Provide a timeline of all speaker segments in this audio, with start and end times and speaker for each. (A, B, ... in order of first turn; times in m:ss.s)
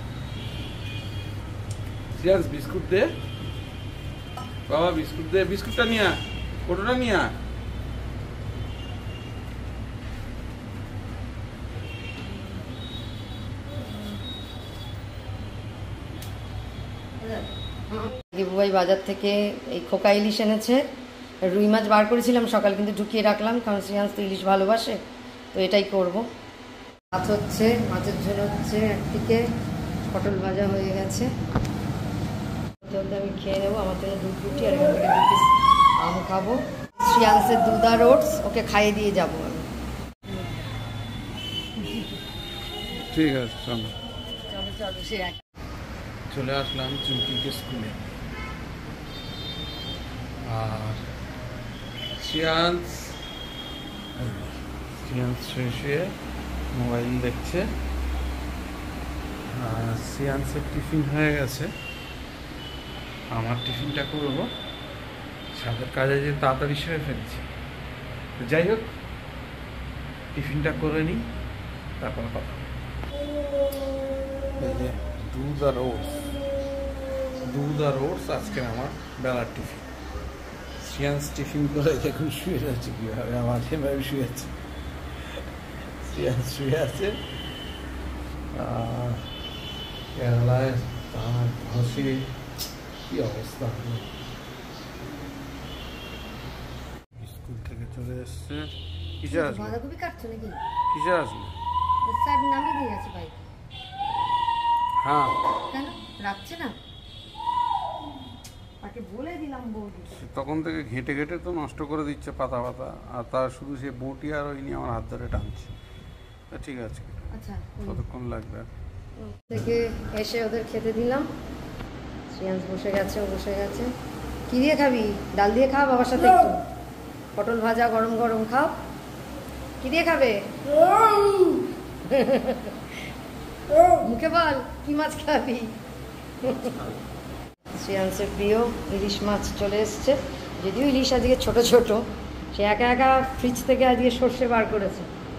0:02.2-0:03.1 A
0:04.7-0:07.3 A
0:17.2-0:20.8 B
0:21.5-0:25.0 B
0:25.5-0:26.3 B
0:27.1-0:29.4 B
0:30.1-0:31.3 B
0:32.8-0:35.5 B
0:36.0-0:39.6 B
0:43.1-0:43.9 A
0:46.3-0:48.0 A
0:50.4-0:51.0 A
0:52.2-0:53.2 A
0:54.2-0:56.1 A
0:56.7-0:57.6 A
0:59.5-1:01.7 A
1:03.3-1:04.5 A
1:05.6-1:07.5 A
1:08.4-1:08.9 A
1:10.4-1:11.2 A
1:12.0-1:12.7 A
1:14.6-1:16.3 A
1:17.4-1:19.9 A
1:20.8-1:24.5 A
1:26.0-1:27.2 A
1:28.5-1:29.3 A
1:30.2-1:32.3 A
1:33.1-1:34.1 A
1:37.2-1:39.8 A
1:39.3-1:40.6 B
1:40.9-1:41.5 A
1:42.0-1:43.4 B
1:45.0-1:45.4 A
1:45.7-1:46.8 B
1:48.8-1:50.2 B
1:50.1-1:55.7 A
1:56.5-1:58.7 A
1:57.3-1:58.0 B
1:59.2-2:01.3 B
2:02.3-2:03.9 B
2:04.5-2:06.6 B
2:07.4-2:08.8 B
2:09.8-2:12.8 B
2:13.9-2:15.7 B
2:16.4-2:16.8 B
2:17.7-2:25.1 B